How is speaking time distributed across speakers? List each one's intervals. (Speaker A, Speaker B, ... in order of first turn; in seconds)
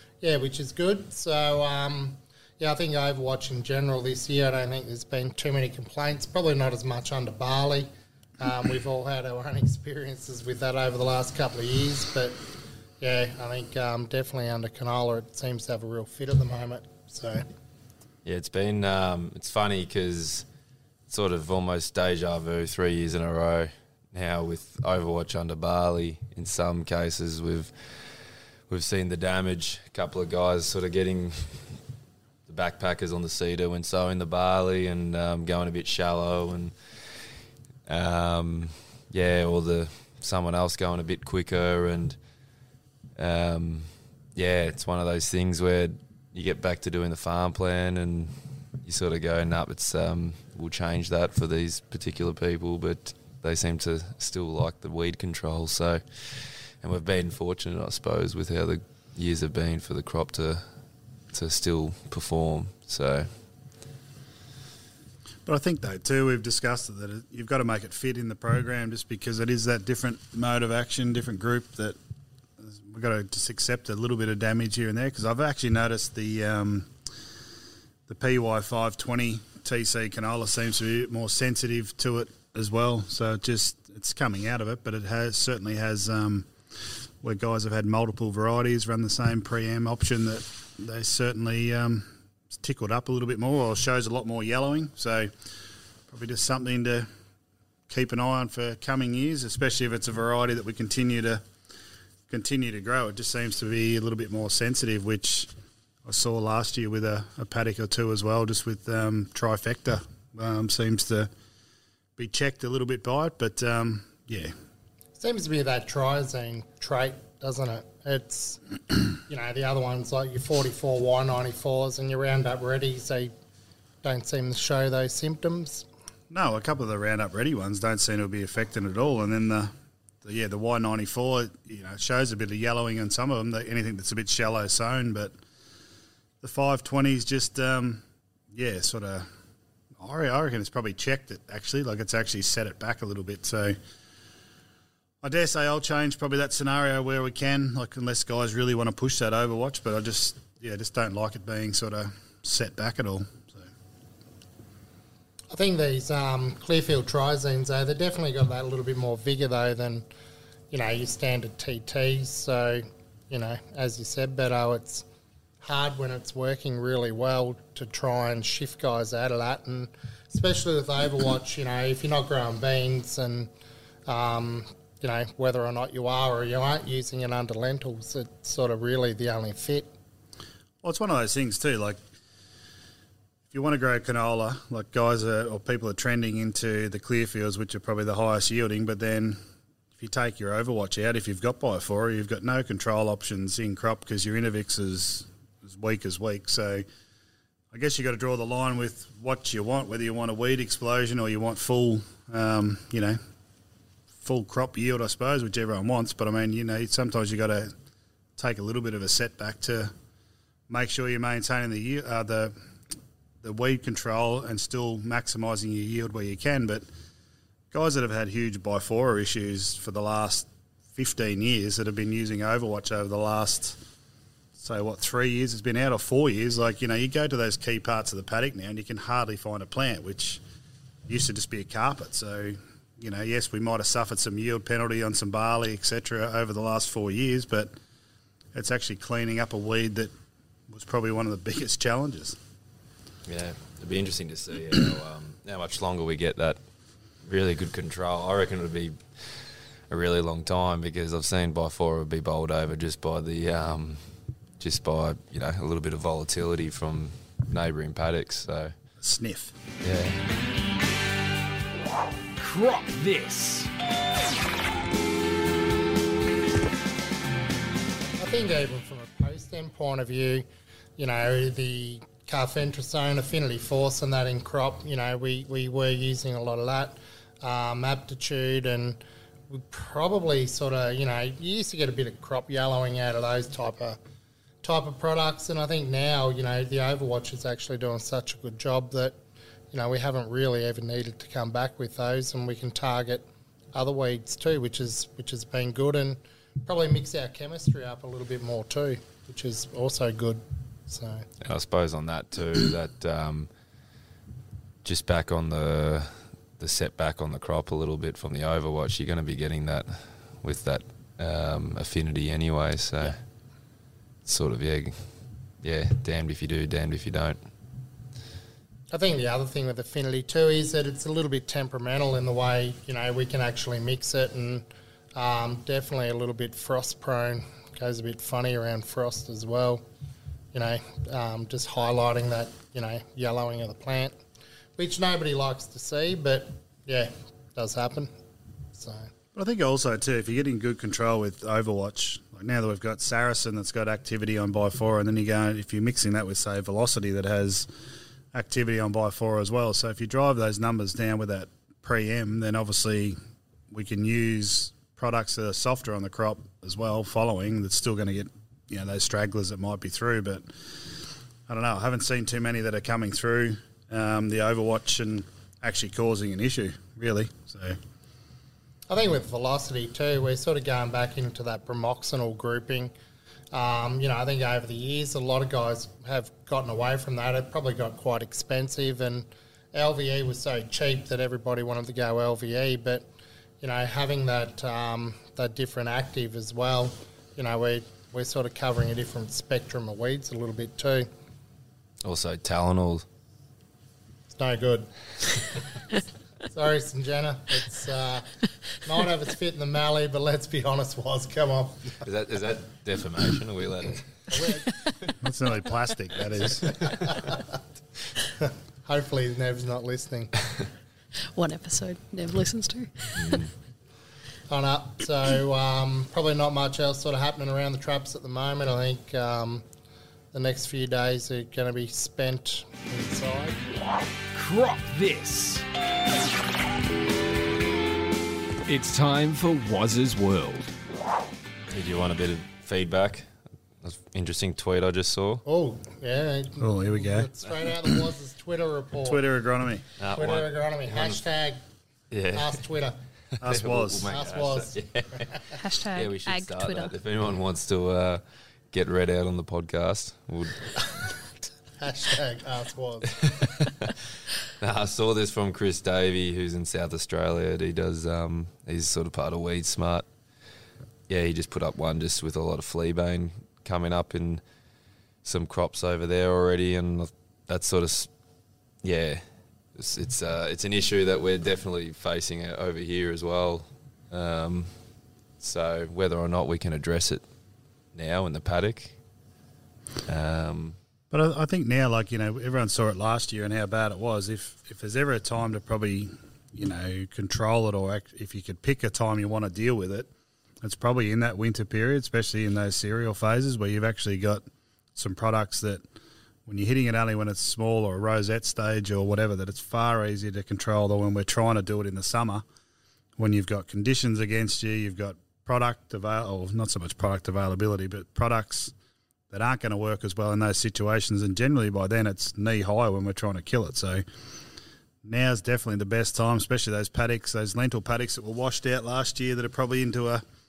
Speaker A: 0.2-7.9, 8.4-12.4, 13.0-17.4, 115.2-118.6, 119.1-123.3, 124.0-125.9, 155.5-160.1, 160.7-165.1, 165.6-173.5, 174.1-179.9, 268.1-270.5, 271.0-284.0, 284.6-289.2, 289.7-301.2, 318.9-329.8, 330.5-334.2, 334.8-338.1, 338.7-339.1, 368.9-372.9, 373.5-383.1, 383.6-391.1, 394.3-395.5, 396.4-402.0, 404.3-404.6, 406.8-407.6, 408.4-410.3, 414.5-419.6, 420.3-423.6, 435.4-439.2, 440.1-441.6, 442.3-443.0, 444.1-445.5, 451.8-453.4
Speaker B: 18.2-20.5, 21.1-31.8, 32.5-37.3, 37.9-42.2, 43.2-60.6, 61.3-63.3, 243.3-246.6, 247.2-258.7, 259.8-260.2, 301.4-303.5, 304.8-313.2, 314.3-317.4, 392.0-393.1, 402.0-404.8, 413.2-413.5, 431.7-433.3, 433.8-435.4, 440.0-441.2, 442.1-442.6, 443.4-445.4, 445.9-451.1, 453.4-453.9, 454.6-460.1, 461.1-464.4, 465.2-468.1, 468.8-474.7, 475.4-477.2, 477.9-479.0, 480.1-480.8
Speaker C: 65.5-72.0, 72.6-76.9, 78.1-86.5, 87.2-95.3, 96.1-97.1, 97.9-101.4, 102.3-105.5, 106.0-111.3, 112.2-114.5, 126.3-129.7, 130.2-135.3, 136.4-139.3, 140.0-143.8, 145.2-153.7, 180.8-182.0, 183.5-189.4, 190.0-196.9, 197.7-203.2, 204.2-207.7, 208.4-209.9, 210.7-212.6, 213.4-216.9, 217.7-223.8, 224.6-230.4, 231.1-237.7, 238.5-240.1, 240.7-242.4, 259.0-259.5, 339.4-347.7, 348.3-353.2, 353.7-360.5, 361.5-367.8, 405.2-406.8, 436.6-437.3, 439.0-439.9, 443.4-444.1, 481.1-490.1, 490.6-494.4, 495.0-495.8, 496.5-502.4, 503.2-508.7, 509.3-514.0, 515.0-520.2
Speaker D: 262.4-263.7, 424.3-425.6, 428.7-430.7
Speaker E: 411.3-413.5, 445.6-446.9